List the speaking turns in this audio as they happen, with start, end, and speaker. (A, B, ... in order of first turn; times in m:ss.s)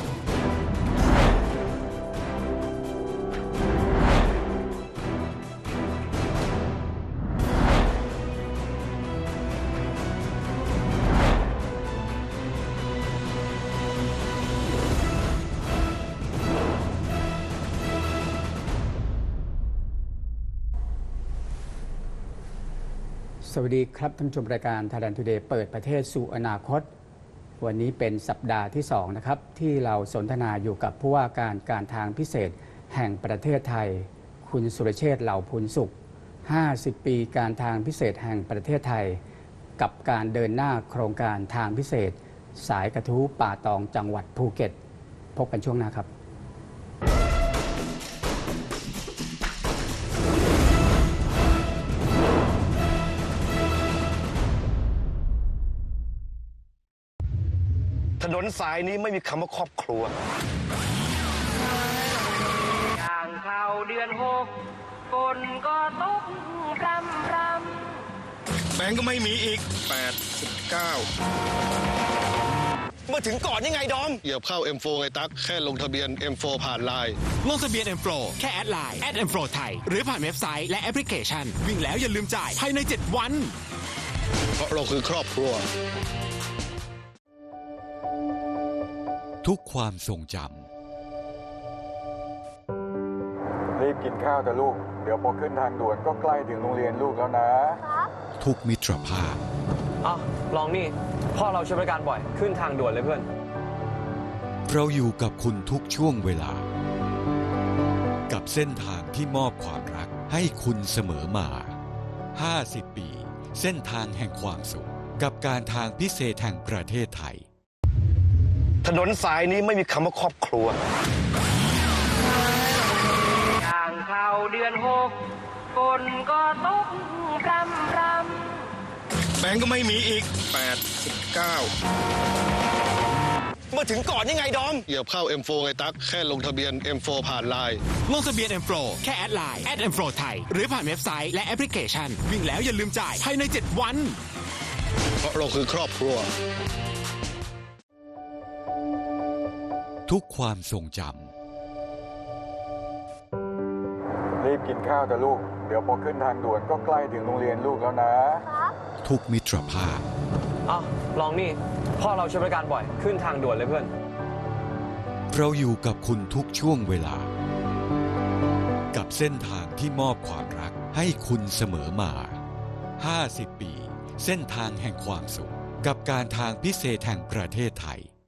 0:23.4-0:26.8 A
0:27.6-0:35.9 A
0:36.4-0:39.2 A
0:39.8-0:44.8 A
0:45.3-0:46.1 A
0:58.2-1:00.1 B
1:02.9-1:04.5 C
1:05.1-1:08.1 C
1:08.7-1:11.1 D
1:13.1-1:14.2 B
1:14.2-1:17.2 D
1:17.4-1:23.6 E
1:24.6-1:25.7 D
1:29.4-1:30.7 F
1:33.7-1:38.0 G
1:38.4-1:39.4 F
1:40.0-1:43.3 H
1:44.6-1:46.7 F
1:48.3-1:51.7 F
1:52.3-1:57.4 F
1:58.8-2:00.8 B
2:03.6-2:05.1 C
2:05.7-2:08.7 C
2:09.4-2:11.7 D
2:13.7-2:14.8 B
2:14.9-2:17.8 D
2:18.0-2:24.2 E
2:25.2-2:26.3 D
2:30.1-2:31.3 F
2:34.4-2:38.7 G
2:39.0-2:40.0 F
2:40.6-2:43.9 H
2:45.3-2:47.3 F
2:48.9-2:52.4 F
2:53.0-2:58.1 F